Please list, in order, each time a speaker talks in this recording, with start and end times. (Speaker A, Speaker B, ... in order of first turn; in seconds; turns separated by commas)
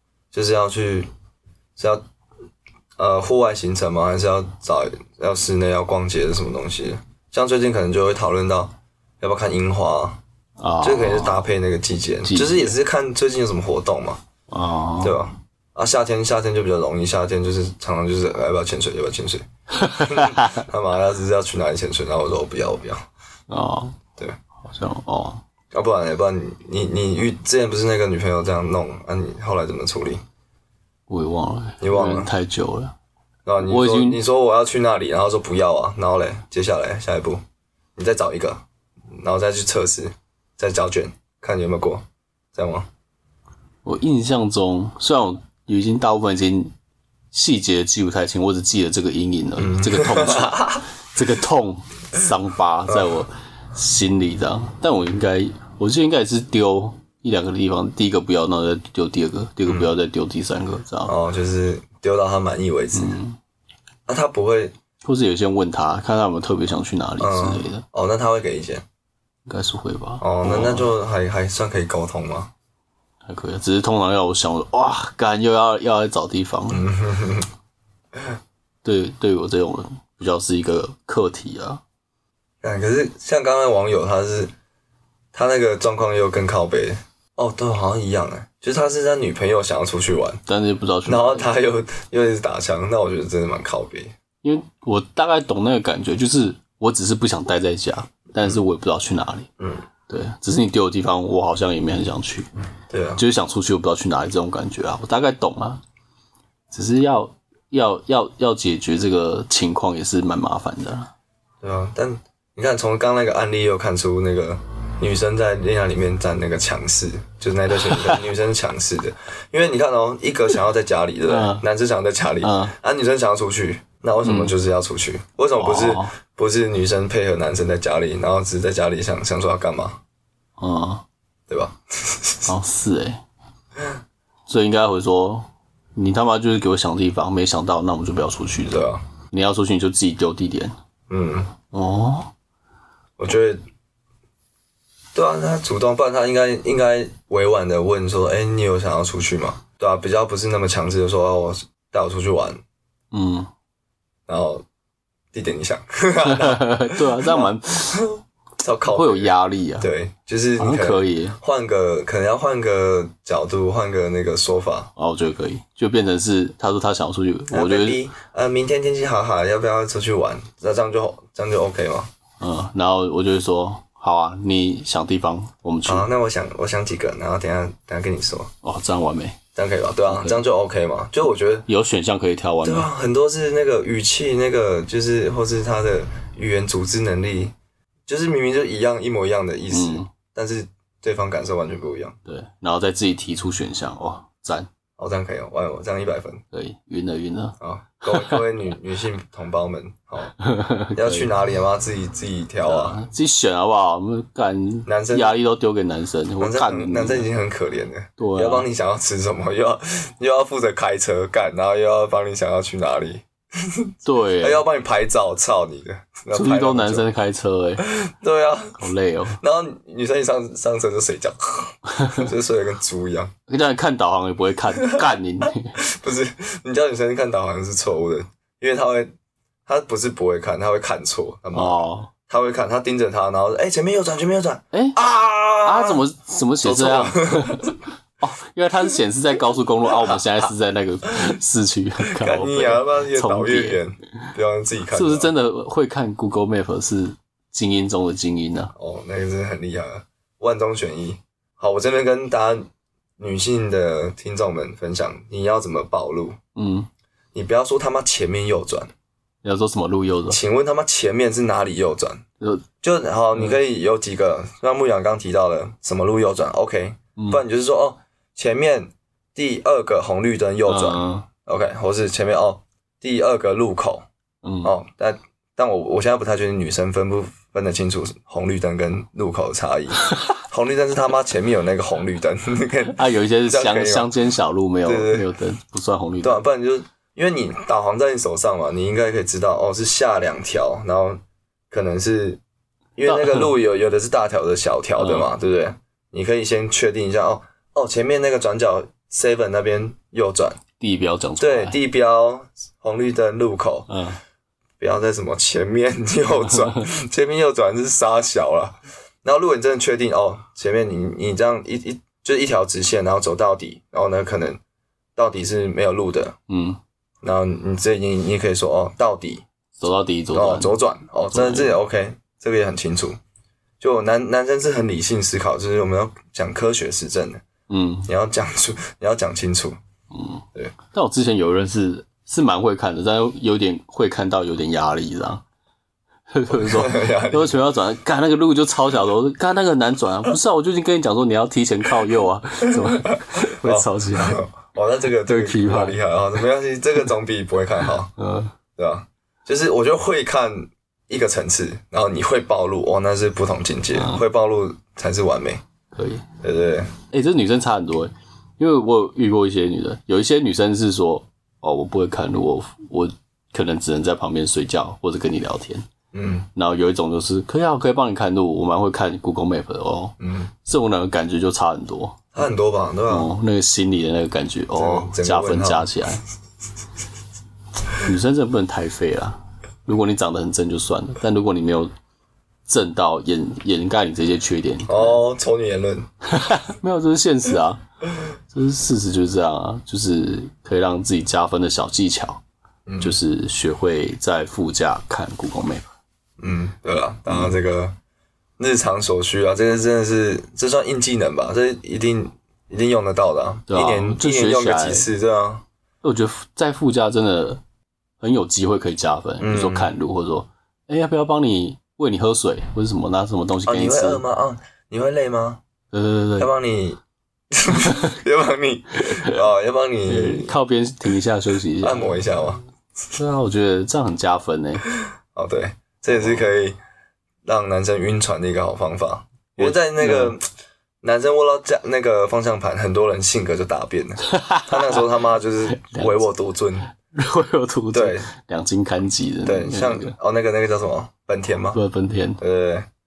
Speaker A: 0.3-1.1, Speaker A: 1.8-2.0, Speaker A: 3.0-10.2, Speaker B: 10.6-11.5, Speaker A: 10.8-14.2, Speaker B: 12.2-12.7, Speaker B: 14.5-15.2, Speaker A: 15.0-19.4, Speaker B: 19.7-20.6, Speaker A: 20.0-23.1, Speaker B: 23.5-23.9, Speaker B: 24.6-25.4, Speaker A: 25.7-30.2, Speaker B: 31.1-32.9, Speaker A: 31.8-32.3, Speaker A: 33.5-37.4, Speaker B: 33.6-34.2, Speaker A: 38.0-42.9, Speaker B: 43.8-46.7, Speaker B: 47.3-61.1, Speaker A: 49.6-50.8, Speaker A: 52.9-53.2, Speaker A: 59.6-59.9, Speaker A: 61.0-63.2, Speaker B: 62.9-63.4, Speaker A: 64.1-64.7, Speaker B: 65.0-67.8, Speaker A: 67.2-68.8, Speaker B: 69.5-70.9, Speaker A: 70.2-72.5, Speaker B: 73.2-76.9, Speaker A: 76.7-77.5, Speaker B: 78.8-81.8, Speaker A: 82.6-84.5, Speaker A: 85.3-90.4, Speaker B: 90.5-91.5, Speaker A: 91.0-94.1, Speaker B: 94.4-99.5, Speaker B: 100.1-102.5, Speaker A: 102.9-103.2, Speaker B: 103.2-105.8, Speaker B: 106.7-111.1, Speaker A: 111.6-130.0, Speaker B: 117.8-118.2, Speaker B: 121.3-121.6, Speaker B: 122.4-122.7, Speaker B: 124.2-124.5, Speaker B: 125.6-126.1, Speaker B: 130.6-131.0, Speaker A: 131.5-132.5, Speaker B: 132.5-133.2, Speaker B: 134.5-140.7, Speaker A: 138.7-139.0, Speaker A: 141.1-141.5, Speaker B: 141.7-142.3, Speaker A: 143.2-143.6, Speaker A: 145.1-152.6, Speaker B: 153.1-153.5, Speaker A: 154.3-154.6, Speaker A: 155.3-164.9, Speaker B: 156.2-158.1, Speaker B: 158.9-159.9, Speaker B: 160.6-161.4, Speaker B: 164.9-168.0, Speaker A: 167.5-172.1, Speaker B: 172.4-176.1, Speaker A: 175.8-178.5, Speaker B: 178.6-179.4, Speaker A: 179.6-181.7, Speaker B: 180.1-180.4, Speaker B: 181.7-182.9, Speaker A: 182.6-187.5, Speaker A: 188.1-192.2, Speaker B: 189.7-190.1, Speaker B: 192.2-194.7, Speaker A: 195.0-196.4, Speaker B: 196.5-198.4, Speaker A: 197.6-200.3, Speaker B: 200.4-201.3, Speaker A: 200.9-203.0, Speaker B: 202.6-207.3, Speaker A: 204.8-205.3, Speaker A: 206.4-217.1, Speaker B: 208.2-208.7, Speaker B: 214.0-214.6, Speaker B: 216.3-217.8, Speaker A: 217.8-218.8, Speaker B: 218.8-219.4, Speaker A: 219.4-223.3, Speaker B: 221.9-222.3, Speaker B: 223.5-225.8, Speaker A: 225.8-229.1, Speaker A: 229.7-236.0, Speaker B: 231.5-232.1, Speaker B: 234.7-235.0, Speaker B: 235.6-243.8, Speaker A: 236.6-237.8, Speaker A: 242.1-245.3, Speaker B: 244.9-248.7, Speaker A: 248.8-256.4, Speaker B: 256.6-256.9, Speaker A: 257.3-258.9, Speaker B: 259.4-260.4, Speaker A: 260.3-262.2, Speaker A: 262.8-274.1, Speaker B: 267.1-267.4, Speaker B: 270.7-271.3, Speaker B: 274.4-274.7, Speaker A: 274.6-284.1, Speaker B: 282.9-286.4, Speaker A: 284.8-285.3, Speaker A: 286.2-292.4, Speaker A: 292.9-300.6, Speaker B: 293.1-293.5, Speaker B: 295.0-295.3, Speaker B: 300.8-301.8, Speaker A: 301.4-303.9, Speaker B: 303.9-304.2, Speaker A: 304.8-314.6, Speaker A: 315.1-316.4, Speaker B: 316.5-316.8, Speaker A: 317.2-319.4, Speaker B: 319.8-320.7, Speaker A: 320.3-323.2, Speaker B: 321.3-321.8, Speaker A: 323.8-327.4, Speaker B: 327.7-328.1, Speaker A: 328.1-329.8, Speaker B: 330.1-335.4, Speaker B: 336.3-344.4, Speaker A: 336.5-337.6, Speaker A: 342.7-348.1, Speaker B: 345.2-346.0, Speaker B: 348.1-348.5, Speaker A: 348.8-355.6, Speaker B: 353.9-354.2, Speaker B: 355.9-356.2, Speaker A: 356.4-356.9, Speaker B: 357.1-365.9, Speaker A: 366.1-366.5, Speaker B: 366.5-372.3, Speaker A: 370.2-370.5, Speaker A: 372.3-373.3, Speaker B: 373.1-376.2, Speaker A: 374.8-375.9, Speaker B: 377.9-381.9, Speaker B: 382.7-385.2, Speaker A: 384.9-386.1, Speaker B: 386.2-387.8, Speaker B: 388.5-392.4, Speaker A: 392.9-393.1, Speaker B: 393.0-395.9, Speaker A: 396.4-397.9, Speaker B: 397.3-397.5, Speaker A: 398.6-405.6, Speaker B: 403.7-405.1, Speaker B: 406.0-407.6, Speaker B: 408.2-414.2, Speaker A: 409.4-409.9, Speaker A: 413.6-415.6, Speaker B: 415.9-416.5, Speaker A: 416.4-417.0, Speaker A: 417.5-420.5, Speaker B: 419.0-419.3, Speaker B: 420.1-422.2, Speaker A: 421.8-422.6, Speaker B: 423.1-424.9, Speaker A: 425.3-426.8, Speaker B: 426.1-426.4, Speaker A: 427.4-430.4, Speaker B: 429.6-430.4, Speaker A: 431.0-436.9, Speaker B: 434.2-435.0, Speaker B: 435.7-436.2, Speaker B: 436.9-440.1, Speaker A: 437.9-438.3, Speaker A: 439.4-441.8, Speaker B: 441.7-442.4, Speaker A: 442.4-442.9